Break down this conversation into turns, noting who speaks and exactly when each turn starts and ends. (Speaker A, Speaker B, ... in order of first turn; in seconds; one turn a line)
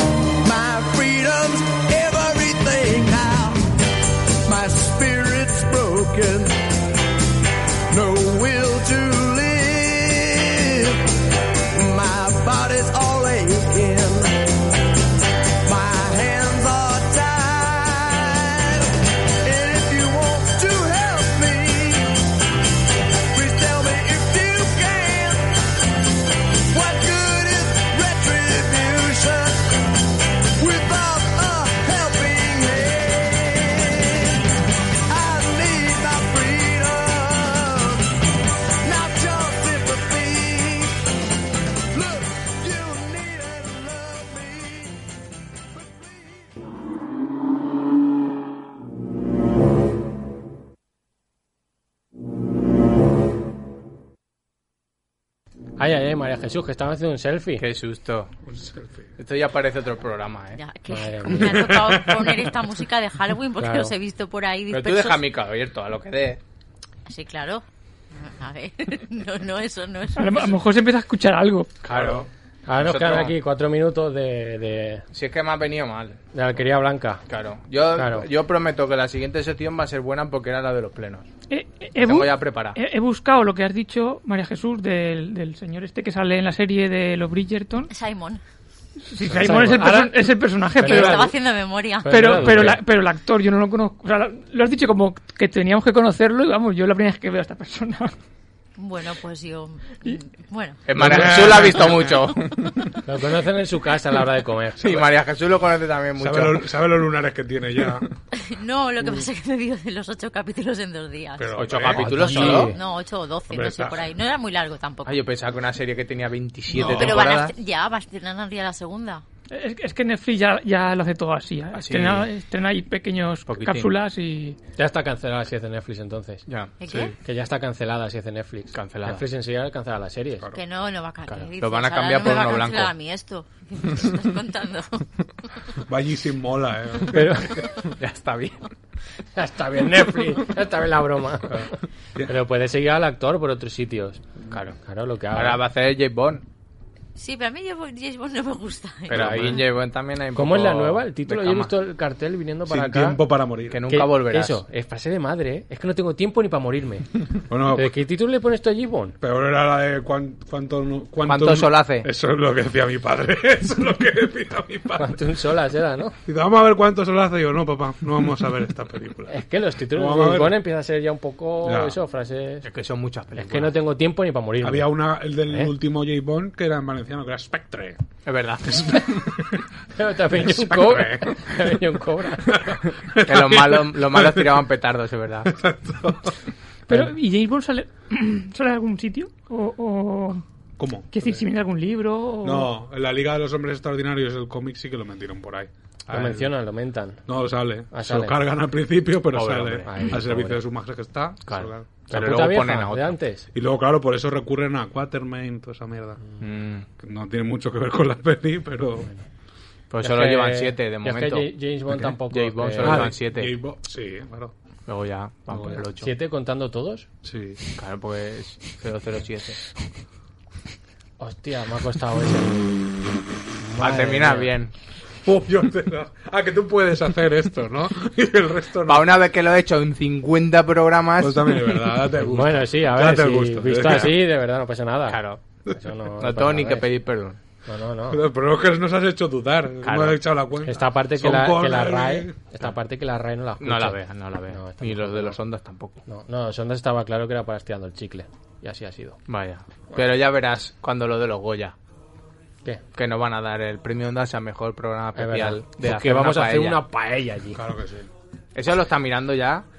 Speaker A: 0.4-3.7
Speaker A: 4.5-6.6
Speaker A: 7.9-11.0
Speaker A: 11.7-14.3
Speaker A: 15.6-18.9
Speaker A: 19.4-22.1
Speaker A: 23.3-25.5
Speaker A: 26.7-29.8
Speaker A: 30.6-34.4
Speaker A: 35.1-38.1
Speaker A: 38.8-41.0
Speaker A: 41.9-45.0
Speaker A: 45.7-46.5
Speaker B: 55.8-57.6
Speaker C: 57.6-58.3
Speaker D: 58.5-59.0
Speaker C: 59.2-60.6
Speaker E: 60.5-65.3
Speaker B: 60.9-61.8
Speaker D: 61.4-62.4
Speaker B: 63.6-63.9
Speaker C: 64.7-66.4
Speaker E: 67.1-70.6
Speaker F: 70.2-71.7
Speaker C: 71.8-73.4
Speaker D: 71.9-72.3
Speaker B: 72.7-75.1
Speaker C: 75.1-76.2
Speaker B: 76.3-77.2
Speaker C: 77.3-81.3
Speaker B: 78.0-78.3
Speaker F: 81.5-87.9
Speaker C: 82.0-82.8
Speaker E: 87.9-88.4
Speaker F: 89.1-91.3
Speaker B: 89.3-91.3
Speaker E: 90.8-92.5
Speaker B: 92.0-92.8
Speaker F: 92.1-98.1
Speaker E: 98.8-101.3
Speaker C: 100.9-102.9
Speaker D: 100.9-102.3
Speaker B: 103.1-105.0
Speaker C: 104.8-106.7
Speaker D: 106.2-108.1
Speaker E: 108.3-115.2
Speaker D: 111.4-112.5
Speaker C: 111.6-112.7
Speaker B: 112.0-112.8
Speaker D: 113.5-114.1
Speaker C: 115.1-117.5
Speaker E: 116.7-119.2
Speaker D: 116.8-117.2
Speaker F: 119.5-124.6
Speaker C: 121.7-122.3
Speaker C: 123.5-123.9
Speaker B: 124.8-126.5
Speaker C: 126.5-126.7
Speaker E: 126.8-127.2
Speaker D: 126.9-127.2
Speaker B: 127.2-130.5
Speaker C: 128.7-129.2
Speaker E: 130.5-135.1
Speaker C: 131.3-132.9
Speaker D: 135.9-137.7
Speaker B: 137.1-137.6
Speaker C: 137.9-138.7
Speaker B: 139.4-141.7
Speaker B: 142.3-144.2
Speaker C: 144.5-144.8
Speaker B: 144.8-145.6
Speaker C: 145.3-146.4
Speaker E: 147.2-149.7
Speaker C: 149.1-151.7
Speaker B: 149.2-149.6
Speaker B: 150.3-153.2
Speaker D: 152.7-153.8
Speaker C: 153.7-154.6
Speaker B: 153.9-157.1
Speaker D: 157.5-157.9
Speaker B: 157.7-159.2
Speaker D: 159.2-165.2
Speaker C: 161.2-162.1
Speaker B: 165.0-166.2
Speaker D: 166.3-169.3
Speaker B: 169.3-172.7
Speaker D: 169.9-170.6
Speaker D: 171.6-172.0
Speaker C: 172.6-173.7
Speaker B: 173.3-174.9
Speaker D: 174.6-178.0
Speaker C: 178.3-179.1
Speaker D: 178.7-179.6
Speaker B: 179.9-182.8
Speaker D: 180.4-181.4
Speaker D: 183.2-184.6
Speaker C: 183.2-185.6
Speaker D: 185.5-186.4
Speaker F: 186.9-190.4
Speaker D: 190.8-191.3
Speaker F: 191.1-192.7
Speaker D: 192.4-196.5
Speaker B: 196.1-197.2
Speaker D: 197.3-201.9
Speaker B: 197.9-198.4
Speaker C: 199.3-200.2
Speaker B: 199.9-200.6
Speaker C: 201.5-203.2
Speaker B: 202.1-203.5
Speaker D: 203.5-206.2
Speaker C: 206.4-206.9
Speaker D: 207.0-209.1
Speaker C: 209.9-213.5
Speaker B: 210.0-213.1
Speaker D: 212.8-214.5
Speaker C: 214.9-216.1
Speaker D: 215.5-215.8
Speaker B: 216.0-217.1
Speaker D: 217.2-217.6
Speaker C: 217.8-219.6
Speaker B: 221.2-222.8
Speaker B: 223.6-224.6
Speaker C: 223.8-224.7
Speaker D: 225.2-229.2
Speaker C: 228.9-232.0
Speaker D: 231.2-234.2
Speaker B: 232.2-235.2
Speaker C: 235.1-235.4
Speaker B: 235.7-236.8
Speaker C: 236.2-237.4
Speaker B: 237.7-238.2
Speaker D: 238.1-242.4
Speaker C: 239.8-240.2
Speaker B: 240.7-244.0
Speaker C: 243.6-246.0
Speaker B: 244.5-245.4
Speaker B: 246.1-249.2
Speaker C: 249.3-251.8
Speaker C: 252.9-256.8
Speaker B: 255.2-257.6
Speaker D: 257.6-258.1
Speaker C: 258.6-259.7